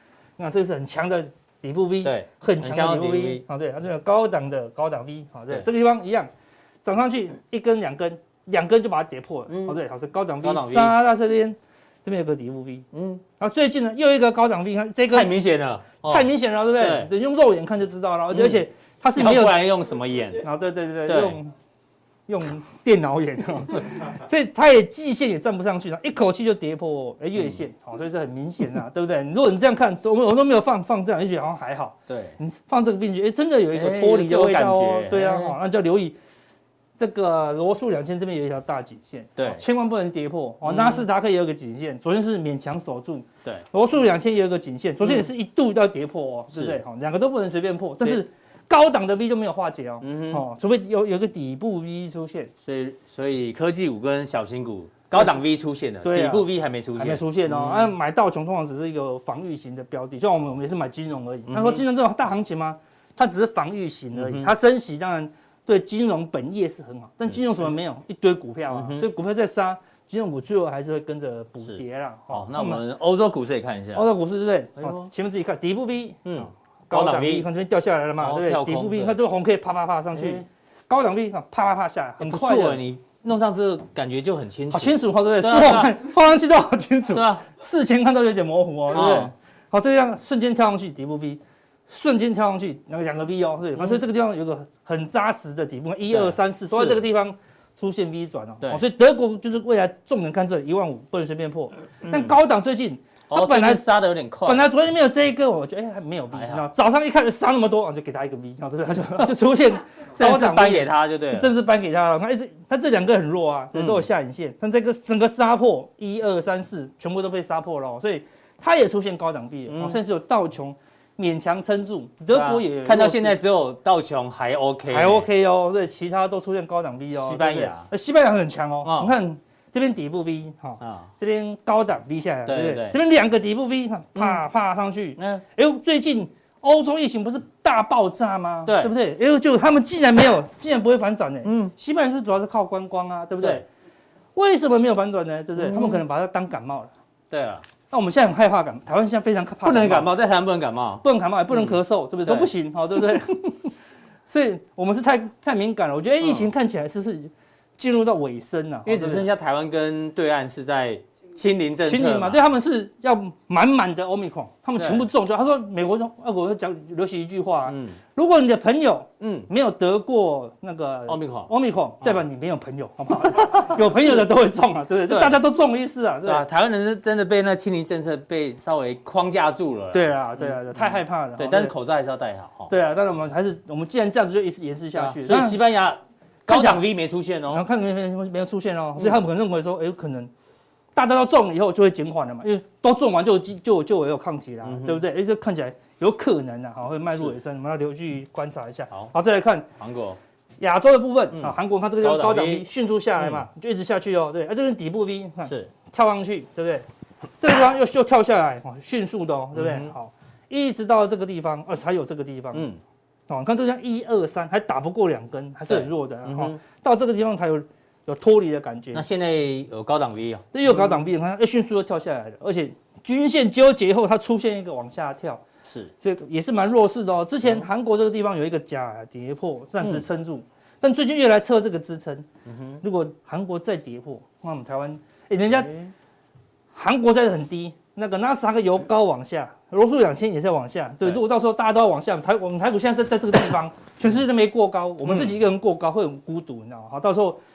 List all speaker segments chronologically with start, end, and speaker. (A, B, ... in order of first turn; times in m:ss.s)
0:00.4-0:06.3 A
0:02.0-0:03.4 B
0:06.8-0:12.9 A
0:09.5-0:09.8 B
0:10.4-0:11.0 B
0:12.9-0:13.2 B
0:13.4-0:15.3 A
0:15.1-0:17.1 B
0:16.0-0:19.6 A
0:18.3-0:18.6 B
0:19.2-0:20.5 B
0:20.4-0:21.5 A
0:21.1-0:21.4 B
0:22.3-0:36.2 A
0:32.1-0:32.4 B
0:33.7-0:35.6 B
0:37.0-0:52.5 A
0:39.4-0:39.6 B
0:40.6-0:41.1 B
0:45.0-0:45.3 B
0:46.5-0:46.8 B
0:50.0-0:50.4 B
0:52.6-0:58.0 B
0:56.0-1:12.8 A
1:01.5-1:01.8 B
1:04.1-1:04.5 B
1:08.7-1:09.1 B
1:11.6-1:14.1 B
1:13.9-1:22.8 A
1:14.8-1:15.1 B
1:16.3-1:17.5 B
1:18.2-1:19.2 B
1:20.1-1:20.4 B
1:22.2-1:25.9 B
1:24.7-1:43.8 A
1:27.1-1:27.4 B
1:28.9-1:29.3 B
1:36.1-1:37.0 B
1:42.0-1:42.4 B
1:43.3-1:44.7 B
1:44.4-2:03.4 A
1:46.3-1:46.7 B
1:50.2-1:51.5 B
1:53.7-1:54.1 B
1:59.7-2:00.0 B
2:02.3-2:05.3 B
2:04.9-2:23.6 A
2:07.1-2:07.9 B
2:08.8-2:09.2 B
2:10.8-2:11.1 B
2:12.5-2:13.0 B
2:14.2-2:14.4 B
2:15.2-2:15.4 B
2:18.7-2:18.9 B
2:21.4-2:21.7 B
2:24.4-2:26.9 A
2:25.6-2:26.0 B
2:27.3-2:27.7 B
2:27.9-2:30.1 A
2:29.6-2:32.5 B
2:31.0-2:33.7 A
2:34.3-2:39.3 A
2:36.2-2:36.5 B
2:38.9-2:42.4 B
2:41.8-2:56.4 A
2:44.8-2:45.1 B
2:47.7-2:48.0 B
2:49.2-2:49.5 B
2:51.1-2:51.5 B
2:55.1-2:55.4 B
2:56.2-3:02.7 B
2:59.9-3:01.7 A
3:02.7-3:05.6 A
3:04.9-3:07.7 B
3:06.5-3:06.8 A
3:07.5-3:10.3 A
3:11.0-3:19.7 A
3:14.6-3:15.0 B
3:19.8-3:20.2 B
3:20.6-3:26.8 A
3:21.3-3:22.7 B
3:23.2-3:23.5 B
3:25.5-3:25.7 B
3:27.4-3:32.7 A
3:29.5-3:29.9 B
3:32.5-3:32.8 B
3:33.3-3:39.1 A
3:35.7-3:36.6 B
3:38.9-3:41.0 B
3:40.5-3:45.4 A
3:45.6-3:45.9 B
3:46.0-3:52.3 A
3:52.5-3:52.8 B
3:52.8-3:55.7 A
3:55.5-3:55.9 B
3:56.7-4:07.4 A
4:05.0-4:05.3 B